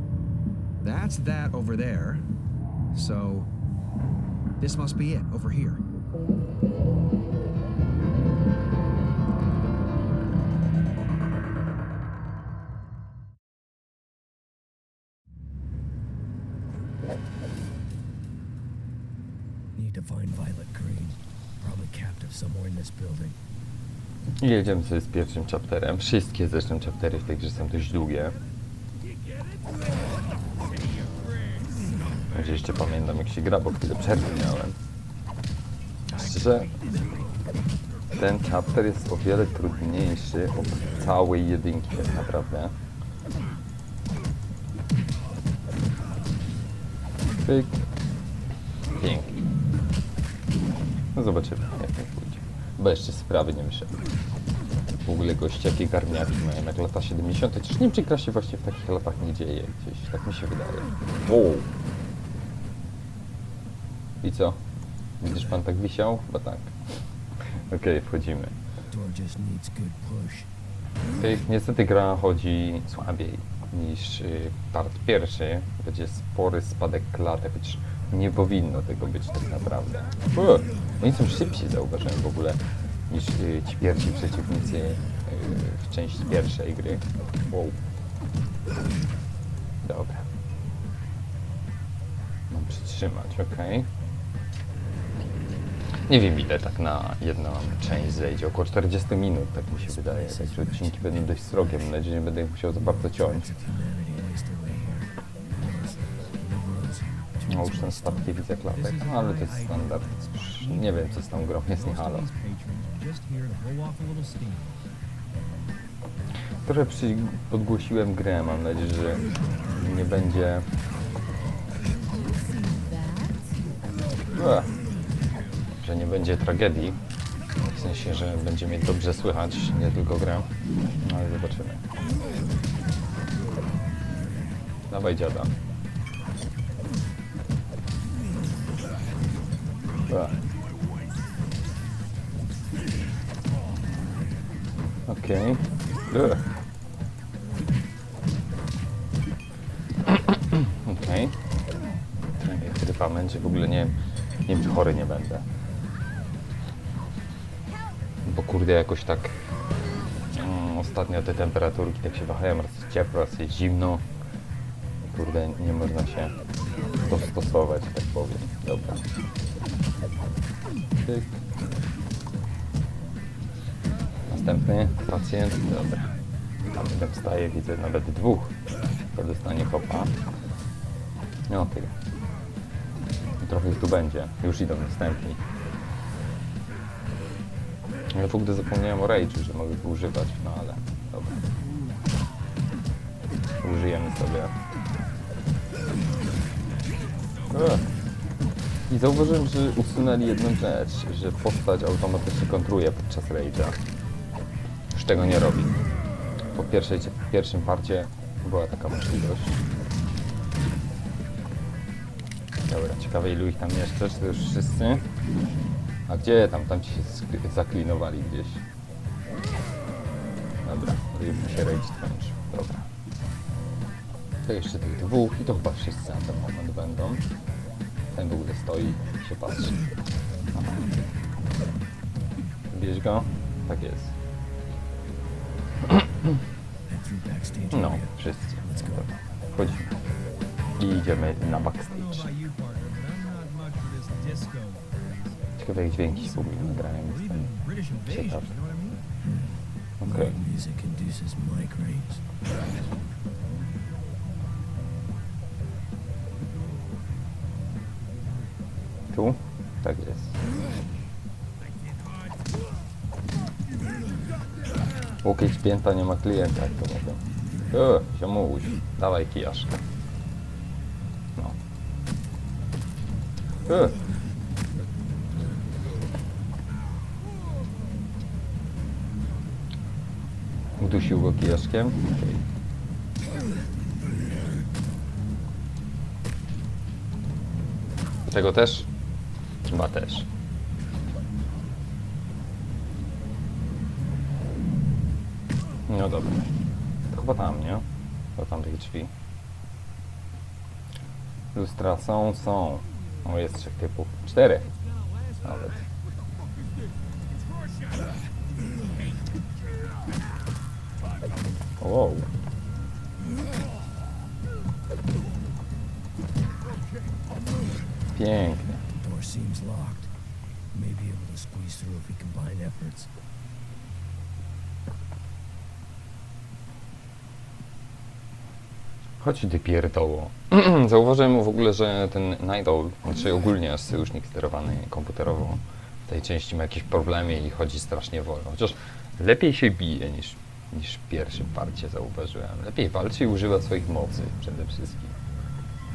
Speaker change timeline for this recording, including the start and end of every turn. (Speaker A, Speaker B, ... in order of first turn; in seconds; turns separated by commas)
Speaker A: 0.8-2.3, Speaker A: 2.9-3.5, Speaker A: 4.6-5.8, Speaker B: 19.8-23.4, Speaker C: 24.4-28.4, Speaker C: 32.3-34.8, Speaker C: 36.1-36.8, Speaker C: 38.1-42.7, Speaker C: 47.4-47.9, Speaker C: 49.0-49.4, Speaker C: 51.1-54.0, Speaker C: 55.0-61.7, Speaker C: 64.2-64.6, Speaker C: 65.2-66.8, Speaker C: 67.6-68.5, Speaker B: 68.9-70.5, Speaker C: 71.2-87.8, Speaker C: 89.8-90.3, Speaker C: 92.5-93.9, Speaker C: 96.1-103.5, Speaker B: 99.8-102.0, Speaker B: 102.8-108.3, Speaker C: 107.5-112.3, Speaker A: 108.7-114.8, Speaker C: 116.7-120.7, Speaker C: 124.3-124.7, Speaker C: 125.8-127.0, Speaker C: 127.6-131.9, Speaker C: 134.9-135.5, Speaker C: 140.1-140.5, Speaker C: 145.1-146.4, Speaker C: 150.1-151.4, Speaker C: 152.3-153.9, Speaker C: 154.5-155.5, Speaker C: 158.2-159.5, Speaker C: 160.3-164.1, Speaker C: 165.0-166.3, Speaker C: 167.0-169.0, Speaker C: 171.0-171.4, Speaker C: 174.3-176.2, Speaker C: 176.7-178.6, Speaker C: 179.1-180.2, Speaker C: 181.5-181.9, Speaker C: 183.4-185.4, Speaker C: 188.1-191.4, Speaker C: 193.6-194.6, Speaker C: 197.5-197.9, Speaker C: 198.9-203.8, Speaker C: 204.9-205.8, Speaker C: 206.5-209.6, Speaker C: 212.7-215.1, Speaker C: 216.1-218.6, Speaker C: 220.6-222.9, Speaker C: 224.4-227.2, Speaker C: 228.1-229.8, Speaker C: 230.5-230.8, Speaker C: 232.7-234.1, Speaker C: 235.9-236.4, Speaker B: 236.9-239.1, Speaker C: 237.7-239.9, Speaker C: 240.8-242.3, Speaker A: 241.8-245.4, Speaker C: 245.6-247.5, Speaker A: 246.3-249.0, Speaker C: 248.1-248.5, Speaker B: 249.2-252.2, Speaker C: 250.0-250.3, Speaker C: 259.1-260.4, Speaker C: 265.2-269.8, Speaker C: 273.7-274.0, Speaker C: 280.8-282.5, Speaker C: 288.3-288.9, Speaker C: 289.6-290.3, Speaker C: 295.9-296.5, Speaker C: 297.1-299.1, Speaker C: 301.5-304.7, Speaker C: 305.4-305.9, Speaker C: 311.8-312.3, Speaker C: 318.1-318.8, Speaker B: 318.9-320.1, Speaker B: 320.7-323.1, Speaker C: 329.2-345.2